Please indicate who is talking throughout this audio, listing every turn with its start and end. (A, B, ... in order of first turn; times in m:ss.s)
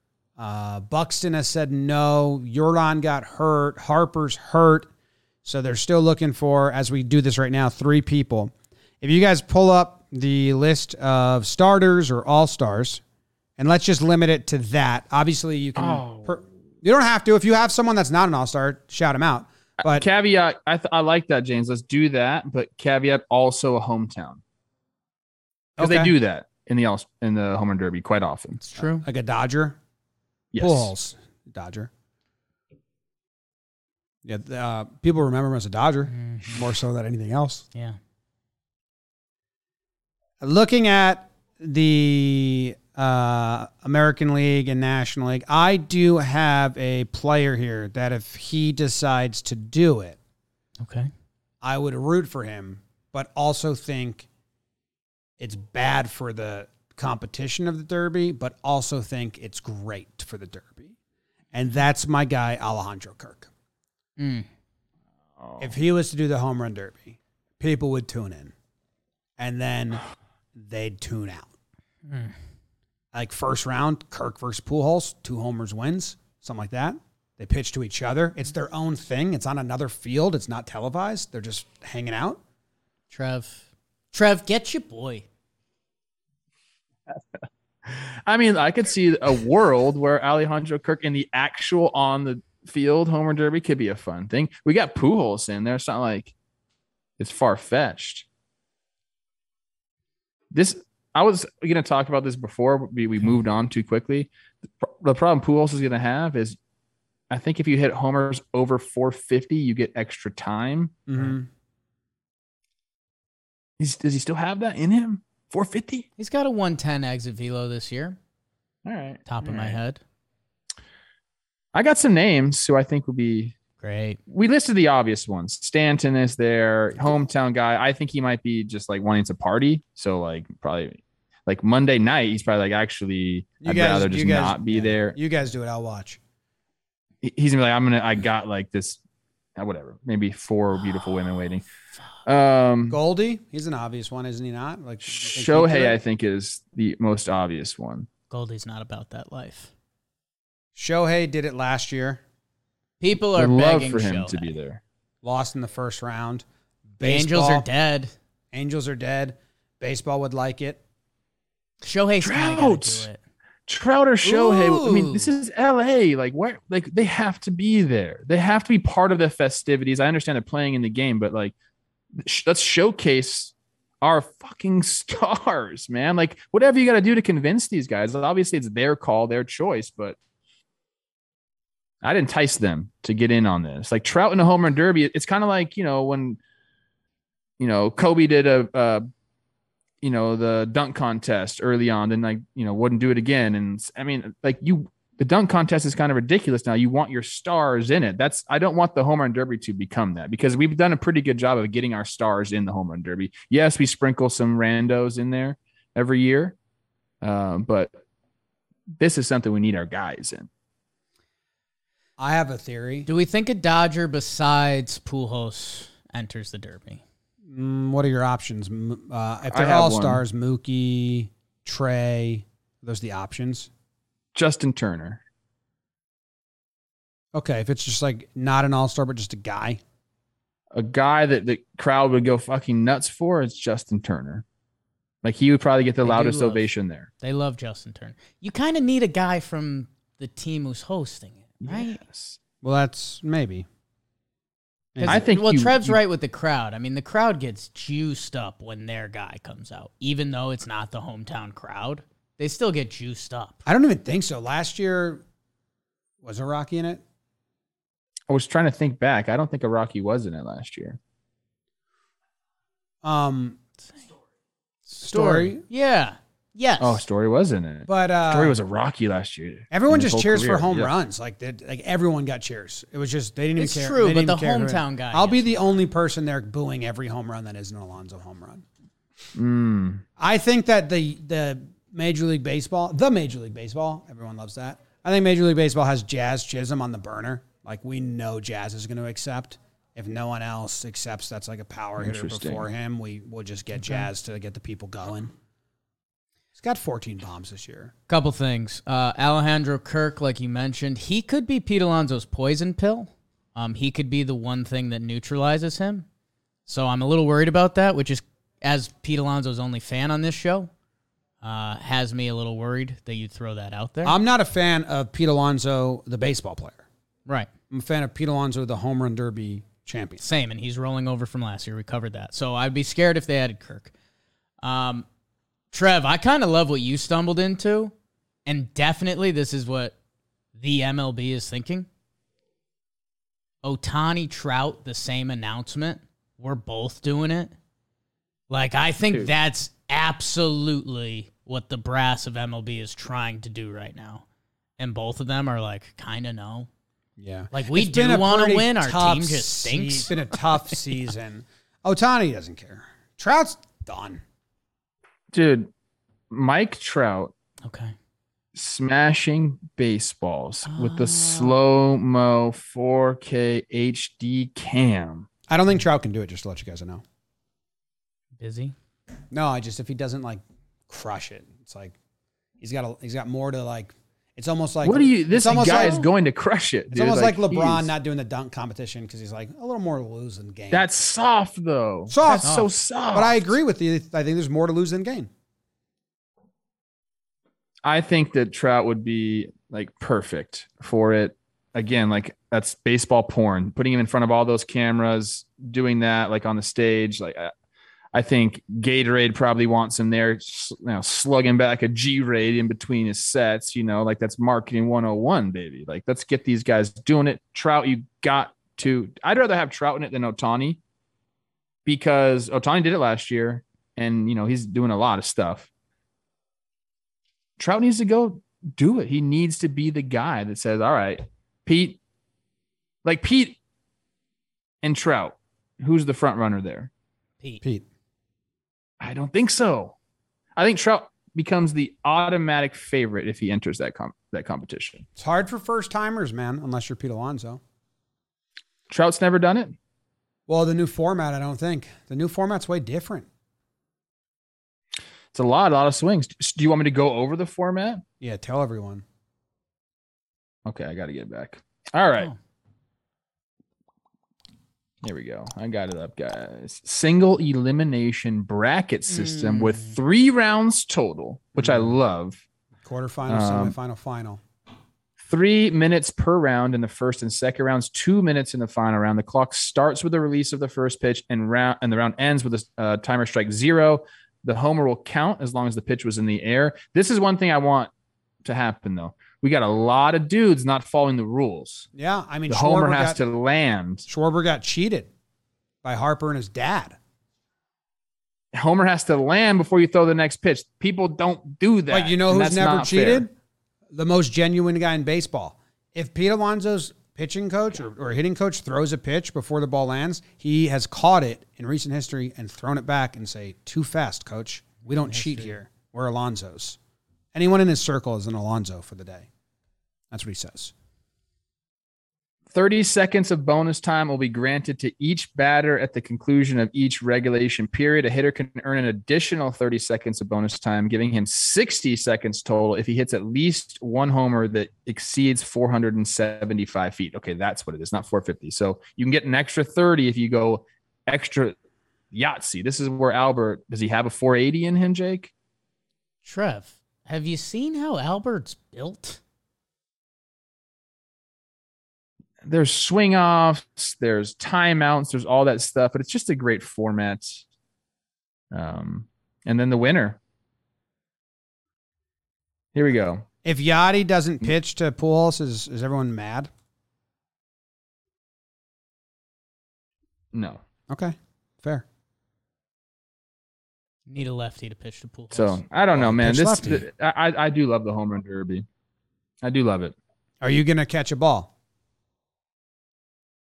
0:00.4-0:04.9 A
0:05.4-0:13.0 A
0:13.6-0:20.1 A
0:15.8-0:16.4 B
0:19.8-0:24.4 B
0:25.8-0:26.1 A
0:25.8-0:28.6 B
0:28.6-0:29.0 C
0:29.0-0:29.8 A
0:30.5-0:30.9 B
0:30.6-0:31.9 A
0:34.2-0:37.6 A
0:36.1-0:36.6 C
0:40.4-0:50.2 A
0:50.8-0:51.1 C
0:51.6-0:54.3 A
0:55.4-1:00.9 A
1:01.5-1:03.5 A
1:04.2-1:04.5 C
1:05.4-1:05.7 B
1:05.6-1:08.5 A
1:09.4-1:10.0 A
1:10.5-1:11.5 A
1:12.1-1:12.3 C
1:13.1-1:22.4 A
1:23.1-1:25.2 C
1:27.8-1:36.3 B
1:37.2-1:38.2 B
1:40.5-1:46.6 B
1:47.3-1:51.1 B
1:51.1-1:51.5 A
1:53.8-1:56.1 B
1:56.2-1:58.2 C
1:58.8-1:59.8 B
1:59.3-2:00.0 C
2:01.7-2:03.5 B
2:03.8-2:04.2 C
2:04.3-2:15.2 B
2:13.6-2:16.2 A
2:17.2-2:19.0 B
2:19.6-2:21.6 B
2:22.2-2:23.0 B
2:22.9-2:26.0 A
2:25.0-2:28.1 B
2:28.3-2:29.7 C
2:30.8-2:32.2 A
2:33.0-2:34.5 C
2:33.3-2:34.8 B
2:35.2-2:36.4 A
2:37.0-2:37.7 A
2:37.0-2:38.1 C
2:38.5-2:40.8 A
2:41.8-2:43.2 C
2:42.2-2:43.1 B
2:43.7-2:51.5 B
2:44.2-2:45.3 C
2:52.2-3:00.2 B
3:02.0-3:06.4 B
3:07.6-3:09.1 B
3:10.0-3:26.6 B
3:27.2-3:27.9 B
3:29.0-3:30.5 B
3:32.2-3:33.1 A
3:33.1-3:37.0 C
3:37.5-3:43.7 A
3:39.5-3:40.2 B
3:44.3-3:45.2 B
3:47.3-3:49.8 A
3:50.7-3:54.4 B
3:55.2-3:57.1 B
3:56.0-3:56.7 C
3:57.2-4:02.0 C
4:01.6-4:02.4 B
4:02.6-4:03.6 A
4:04.9-4:05.3 A
4:05.0-4:13.6 C
4:05.0-4:06.0 B
4:13.6-4:15.2 A
4:16.2-4:17.0 A
4:18.3-4:21.0 B
4:23.0-4:23.6 A
4:24.9-4:27.0 C
4:25.0-4:25.6 A
4:26.8-4:30.9 B
4:27.9-4:28.6 A
4:29.7-4:38.6 A
4:33.6-4:35.6 C
4:39.3-4:40.0 B
4:40.2-4:55.3 A
4:52.0-4:52.7 B
4:53.8-4:54.1 C
4:56.5-4:57.9 A
4:58.1-5:06.0 C
5:06.6-5:10.7 C
5:11.4-5:14.2 C
5:14.0-5:16.8 A
5:17.7-5:20.2 A
5:20.2-5:23.9 C
5:24.6-5:25.0 C
5:25.7-5:27.9 C
5:28.4-5:29.9 C
5:30.6-5:31.9 C
5:33.6-5:37.5 C
5:38.5-5:44.2 C
5:44.8-5:46.7 C
5:47.2-5:54.2 A
5:47.5-5:50.8 C
5:55.3-5:55.7 B
5:56.3-5:57.3 B
5:57.6-5:57.9 C
5:58.5-6:05.3 B
6:00.6-6:01.6 C
6:05.5-6:07.0 A
6:08.4-6:08.7 C
6:09.3-6:12.0 A
6:12.6-6:16.1 A
6:14.8-6:17.9 B
6:16.9-6:20.9 A
6:20.7-6:23.5 B
6:22.1-6:22.5 A
6:22.4-6:22.7 C
6:23.1-6:25.3 A
6:27.8-6:37.5 B
6:38.1-6:50.8 B
6:51.8-6:55.7 B
6:57.6-7:02.0 B
7:03.0-7:03.6 B
7:04.8-7:06.9 B
7:09.0-7:09.9 B
7:10.6-7:15.0 B
7:15.2-7:17.6 A
7:18.9-7:19.8 B
7:20.5-7:23.3 A
7:25.3-7:28.0 B
7:28.2-7:29.0 A
7:30.6-7:32.3 B
7:35.0-7:42.4 B
7:39.1-7:40.0 C
7:41.6-7:42.0 A
7:42.8-7:44.4 A
7:43.3-7:43.7 B
7:45.2-7:57.9 B
7:58.4-8:01.9 B
8:01.9-8:03.2 A
8:02.5-8:04.0 B
8:04.1-8:05.1 A
8:05.8-8:07.0 A
8:08.5-8:13.3 B
8:11.9-8:13.3 A
8:13.9-8:26.8 A
8:24.8-8:25.6 C
8:27.3-8:29.3 A
8:30.1-8:30.7 A
8:32.5-8:51.5 B
8:52.1-8:55.3 B
8:56.2-8:59.2 C
9:02.4-9:07.4 B
9:08.5-9:10.2 B
9:12.7-9:13.2 B
9:13.4-9:16.5 A
9:20.3-9:20.6 B
9:20.9-9:21.8 A
9:24.0-9:25.6 C
9:25.3-9:28.6 B
9:25.9-9:26.8 A
9:29.4-9:29.9 B
9:30.4-9:31.5 A